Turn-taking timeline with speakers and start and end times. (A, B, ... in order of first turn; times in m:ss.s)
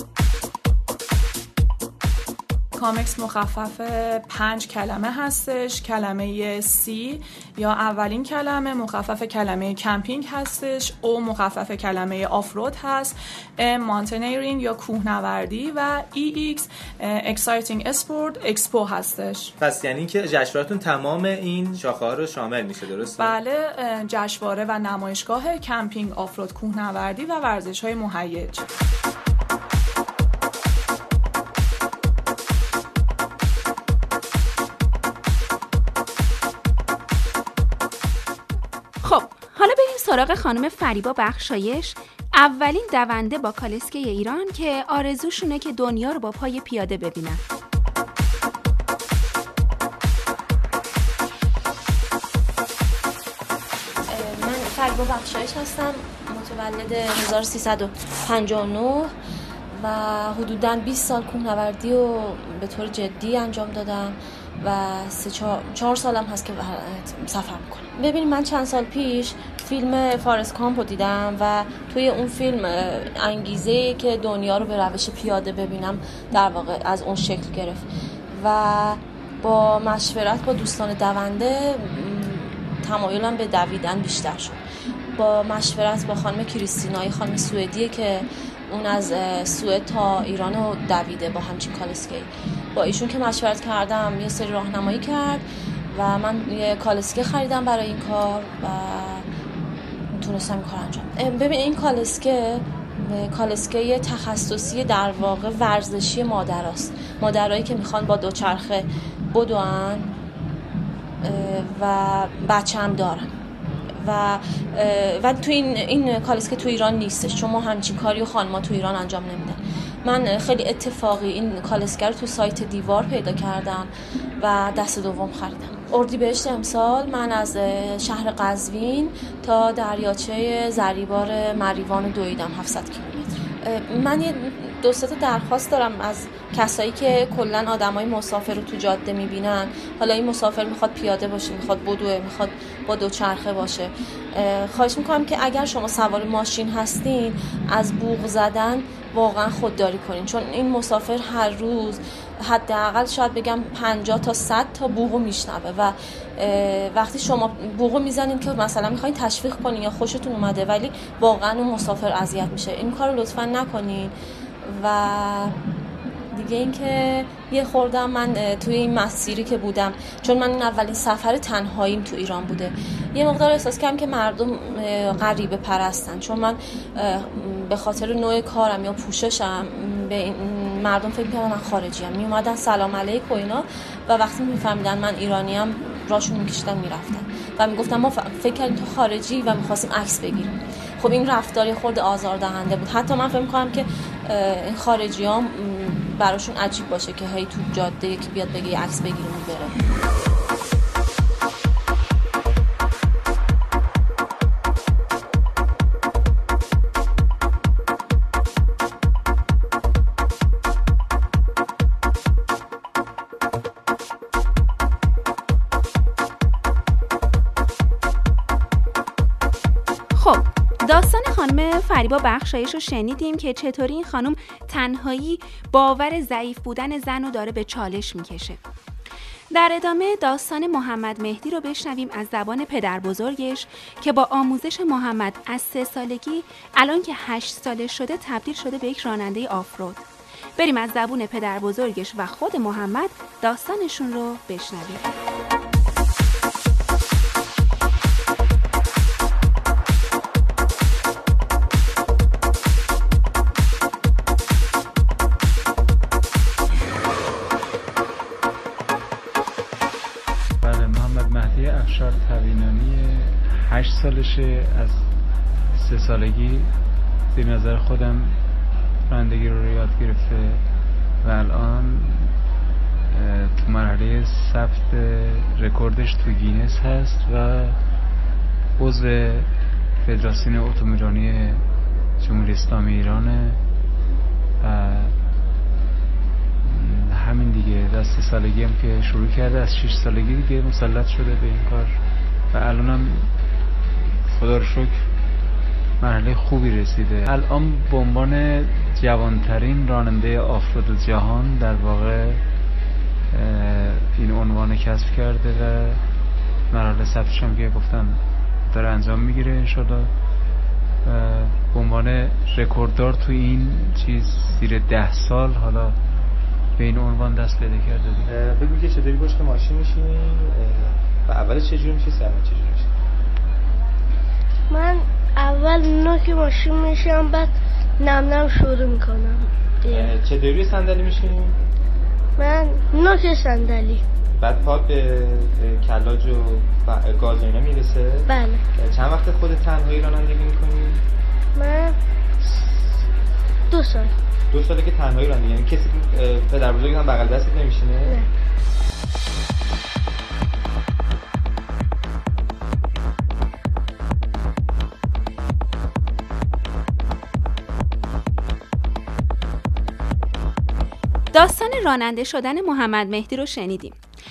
0:02.8-0:19.5 A
0:19.6-0:23.3 B
0:23.2-0:28.7 A
0:39.0-0:47.4 C
0:54.1-0:59.1 D
0:59.7-1:24.6 D
1:25.1-1:39.3 D
1:40.1-1:50.1 D
1:51.2-1:53.4 D
1:53.9-2:45.6 D
2:46.3-3:19.8 D
3:40.2-3:48.6 C
3:49.5-4:00.0 C
4:00.6-4:05.2 C
4:20.6-4:25.1 E
4:25.7-4:26.8 E
4:27.3-4:28.4 E
4:29.1-4:30.6 E
4:31.2-4:32.4 E
4:33.1-4:37.8 E
4:38.8-4:39.5 E
4:40.0-4:41.6 E
4:42.2-4:43.6 E
4:44.6-4:45.2 E
4:46.6-4:53.3 E
4:54.2-4:55.1 E
4:56.0-5:02.4 E
5:03.3-5:06.0 E
5:06.7-5:10.1 E
5:11.0-5:16.0 E
5:16.8-5:18.3 E
5:18.2-5:22.9 B
5:24.7-5:30.1 F
5:29.9-5:31.6 B
5:32.4-5:34.0 F
5:34.3-5:41.0 B
5:38.3-5:38.6 F
5:41.6-5:42.0 F
5:43.7-5:44.1 F
5:44.5-5:48.1 B
6:01.3-6:04.0 C